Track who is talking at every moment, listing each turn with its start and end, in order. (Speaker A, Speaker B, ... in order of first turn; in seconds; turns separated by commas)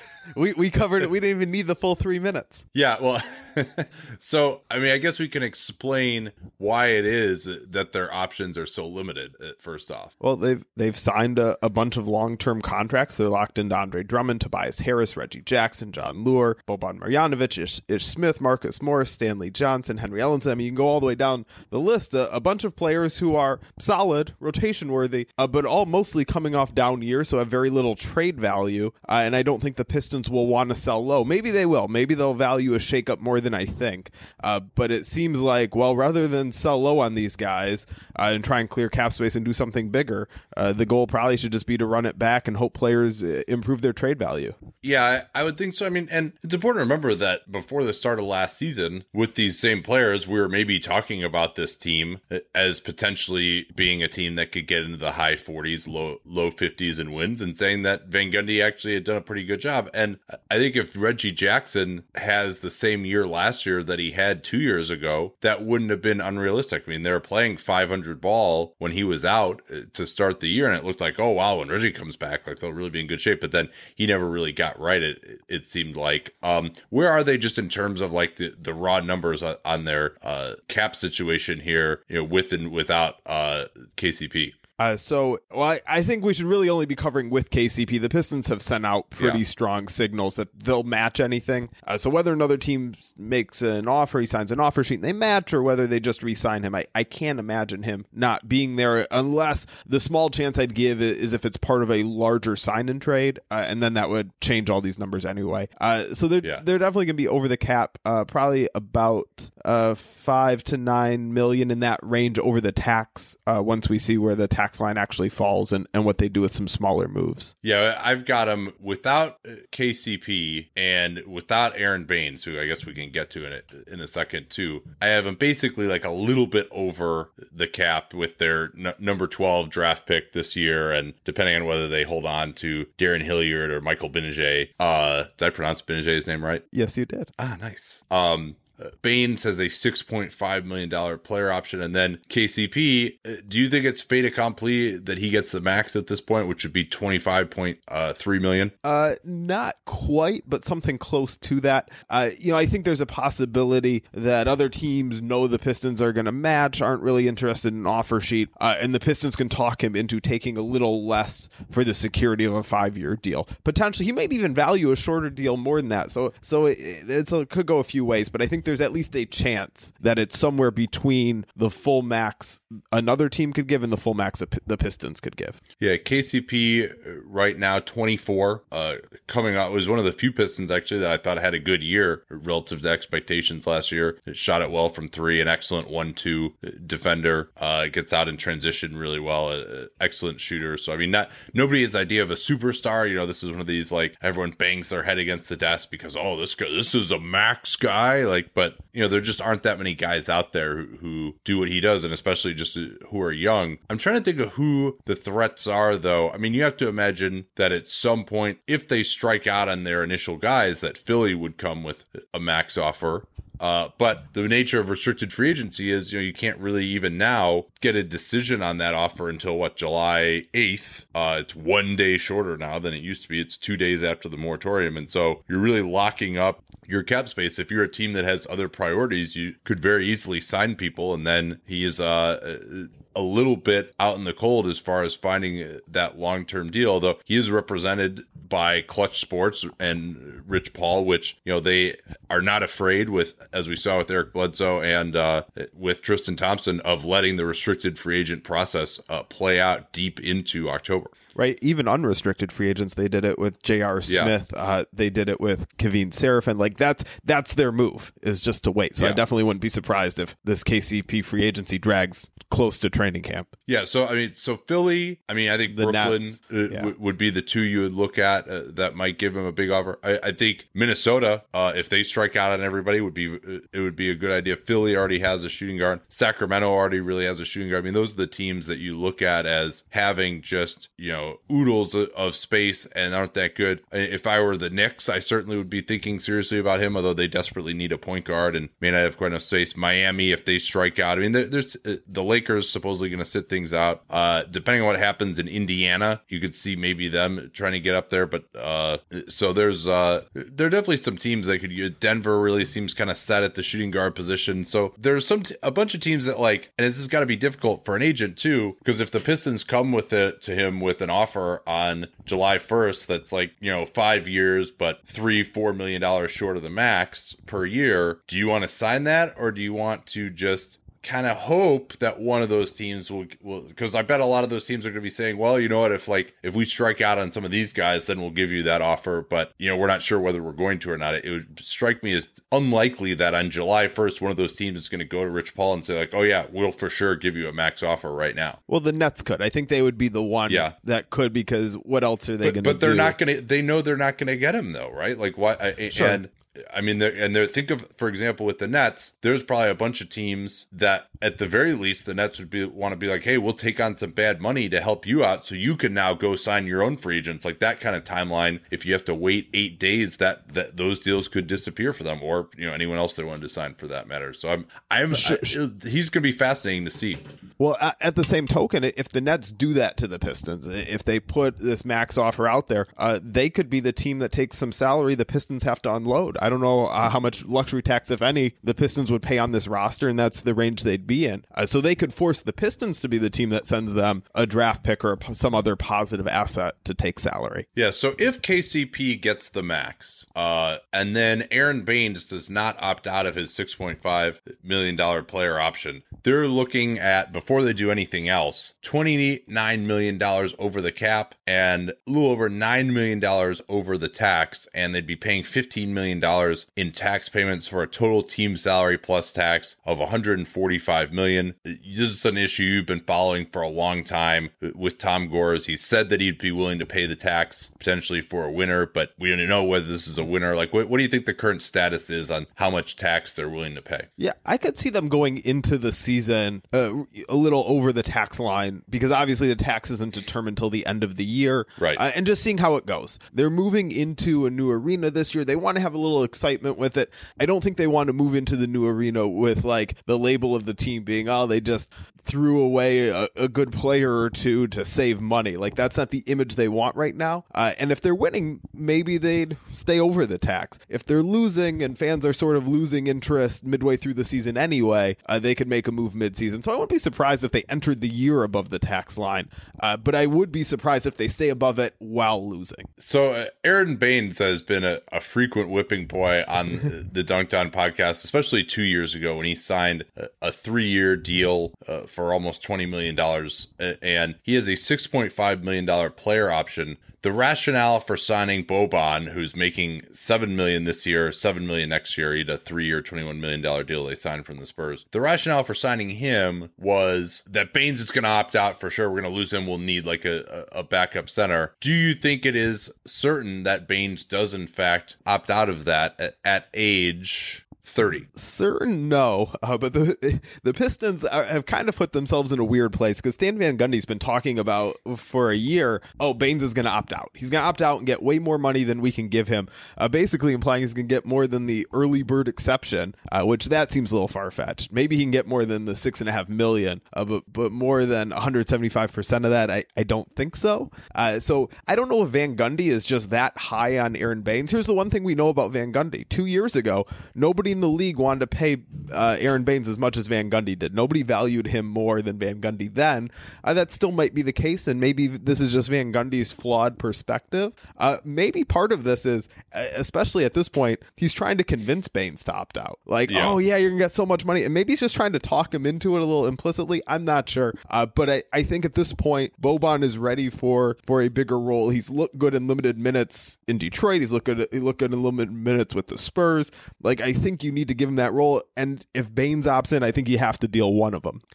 Speaker A: 0.3-2.6, Speaker B: 2.7-10.1, Speaker A: 10.2-44.5, Speaker B: 44.8-84.5, Speaker A: 84.8-117.5, Speaker B: 117.6-136.6, Speaker A: 136.7-137.3, Speaker B: 137.4-148.7, Speaker A: 148.8-175.6, Speaker B: 175.8-251.1, Speaker A: 251.3-263.5, Speaker B: 254.1-254.3, Speaker B: 263.7-338.6, Speaker A: 265.7-266.9, Speaker A: 338.7-343.2, Speaker B: 340.5-340.7, Speaker B: 342.4-367.2, Speaker A: 345.9-346.2, Speaker A: 365.1-365.6, Speaker A: 367.6-387.6, Speaker B: 387.8-424.1, Speaker A: 424.2-462.9, Speaker B: 463.0-498.3, Speaker A: 498.4-561.4, Speaker B: 543.3-543.6